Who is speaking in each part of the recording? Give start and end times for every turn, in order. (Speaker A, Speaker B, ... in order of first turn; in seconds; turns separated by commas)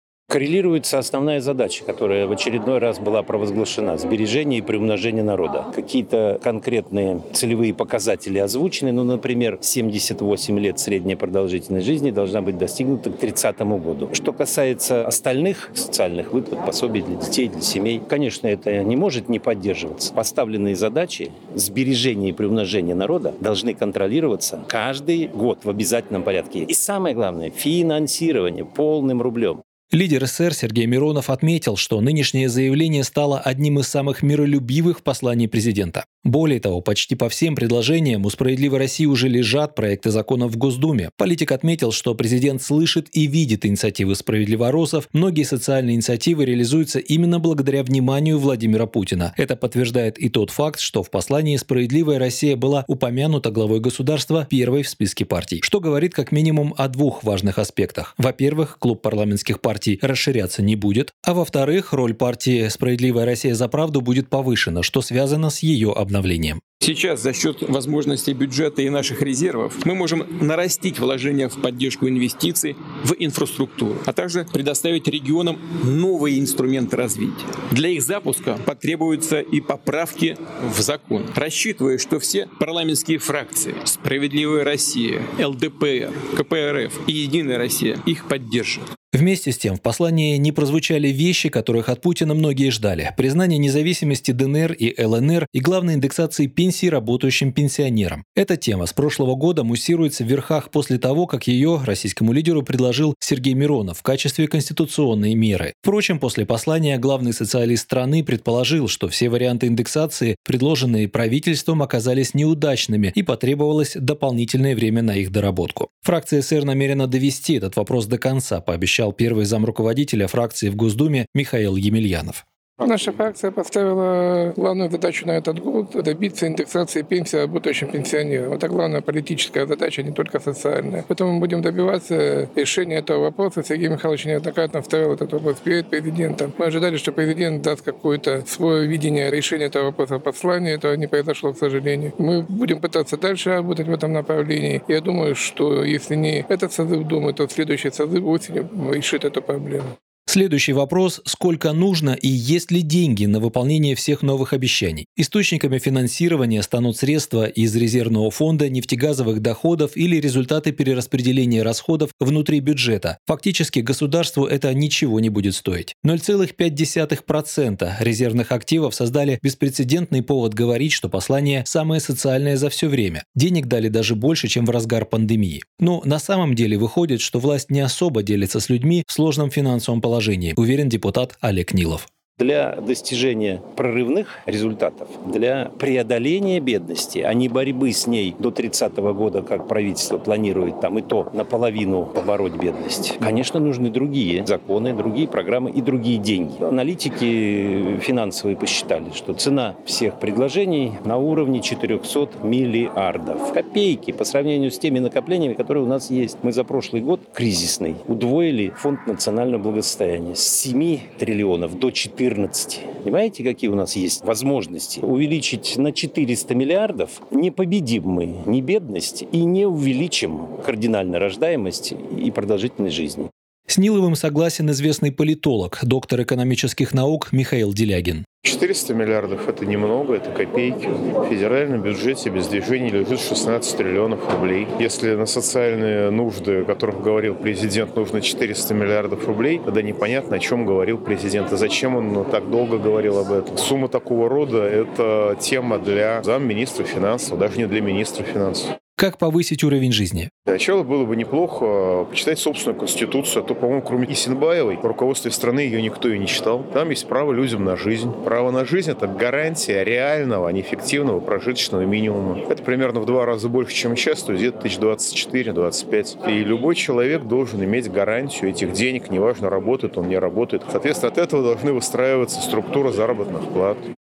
Speaker A: 0.3-29.6, Speaker B: 29.9-66.6, Speaker C: 66.8-88.8, Speaker B: 89.1-122.4, Speaker D: 122.8-149.9, Speaker B: 150.3-182.1, Speaker A: 182.4-223.3, Speaker B: 223.7-228.3, Speaker E: 228.4-248.8, Speaker B: 249.0-250.3, Speaker E: 250.5-273.8